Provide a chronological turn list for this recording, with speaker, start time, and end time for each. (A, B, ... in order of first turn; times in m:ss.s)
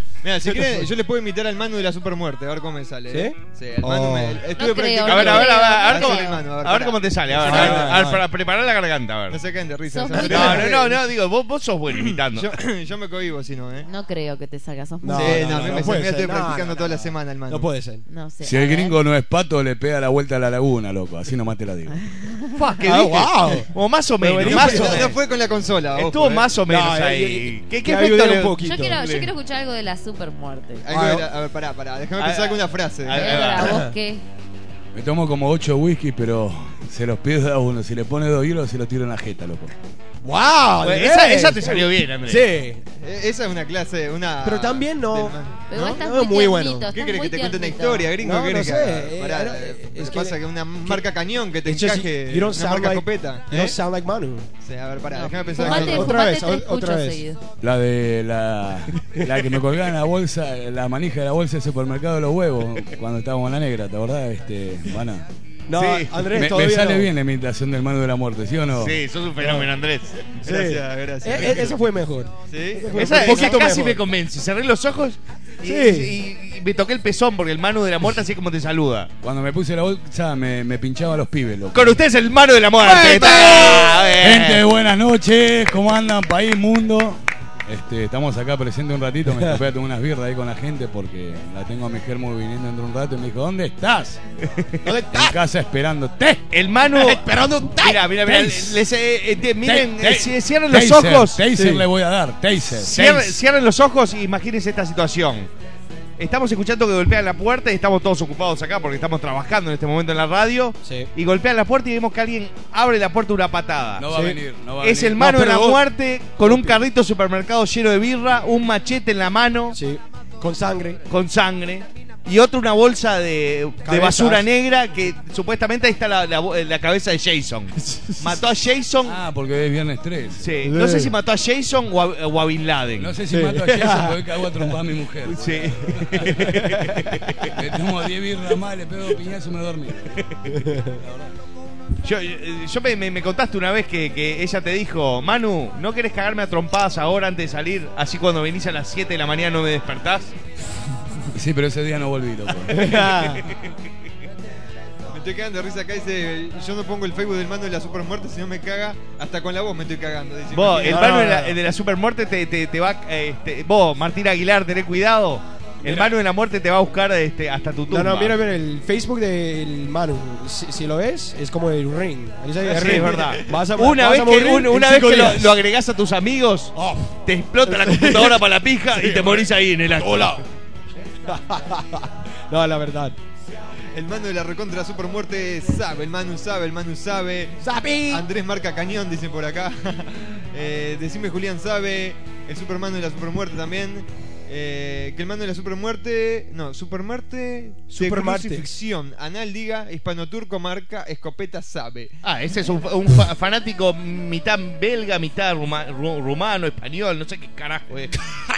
0:00.2-0:08.0 A
0:00.5-0:00.9 B
0:03.1-0:04.4 B
0:04.5-0:06.4 C
0:05.0-0:09.4 D
0:07.3-0:08.2 B
0:09.3-0:11.0 A
0:09.9-0:10.7 C
0:10.1-0:10.7 B
0:10.2-0:12.6 D
0:11.9-0:13.9 A
0:13.8-0:15.9 C
0:15.0-0:18.0 B
0:15.2-0:17.7 A
0:18.1-0:19.0 C
0:18.4-0:22.0 E
0:21.9-0:22.4 C
0:22.6-0:25.2 D
0:22.8-0:25.2 B
0:24.4-0:26.5 A
0:25.9-0:29.3 D
0:26.7-0:29.1 B
0:28.6-0:30.9 C
0:30.8-0:33.6 A
0:30.9-0:31.3 B
0:32.2-0:33.8 D
0:33.2-0:34.2 C
0:33.5-0:34.0 B
0:34.9-0:39.7 E
0:40.2-0:42.8 B
0:40.8-0:42.5 D
0:43.0-0:45.9 A
0:44.4-0:46.9 B
0:45.7-0:48.1 C
0:46.9-0:53.8 A
0:48.2-0:51.1 B
0:51.6-0:54.5 B
0:54.6-0:56.2 A
0:55.1-0:57.4 C
0:55.6-0:57.2 B
0:57.6-1:05.2 E
1:05.7-1:07.1 B
1:05.8-1:06.2 D
1:06.3-1:09.0 E
1:08.8-1:10.2 D
1:10.4-1:11.8 A
1:10.4-1:14.0 B
1:11.4-1:11.6 D
1:12.5-1:13.8 A
1:12.9-1:19.1 D
1:15.6-1:16.2 B
1:19.2-1:22.0 E
1:21.7-1:24.6 D
1:22.8-1:24.0 B
1:24.2-1:34.2 E
1:29.3-1:29.6 B
1:34.8-1:35.4 B
1:35.1-1:36.4 E
1:36.5-1:41.4 D
1:36.9-1:38.5 B
1:38.3-1:38.6 E
1:39.6-1:43.4 E
1:41.5-1:41.9 B
1:42.8-1:45.5 D
1:46.2-1:54.0 D
1:50.8-1:51.1 B
1:54.0-1:55.5 E
1:54.1-1:54.4 B
1:54.8-1:59.8 D
1:55.2-1:55.8 B
1:56.4-1:56.8 B
1:59.7-2:01.0 B
2:01.1-2:09.2 D
2:03.8-2:04.5 B
2:07.8-2:08.4 B
2:09.0-2:10.5 E
2:10.4-2:13.1 D
2:10.6-2:11.2 B
2:13.0-2:16.5 E
2:13.3-2:14.7 B
2:15.3-2:17.6 D
2:16.4-2:16.7 B
2:17.6-2:20.3 E
2:20.5-2:21.0 B
2:22.0-2:30.3 D
2:31.4-2:32.9 E
2:32.7-2:33.5 B
2:33.0-2:33.5 D
2:35.1-2:41.3 A
2:40.5-2:48.4 D
2:40.8-2:41.6 B
2:45.8-2:46.1 B
2:47.9-2:55.6 B
2:52.6-2:56.8 D
2:56.8-3:00.4 B
2:57.3-3:00.4 D
3:01.3-3:03.2 B
3:03.9-3:22.2 A
3:07.6-3:08.3 B
3:17.9-3:18.7 B
3:22.2-3:28.2 D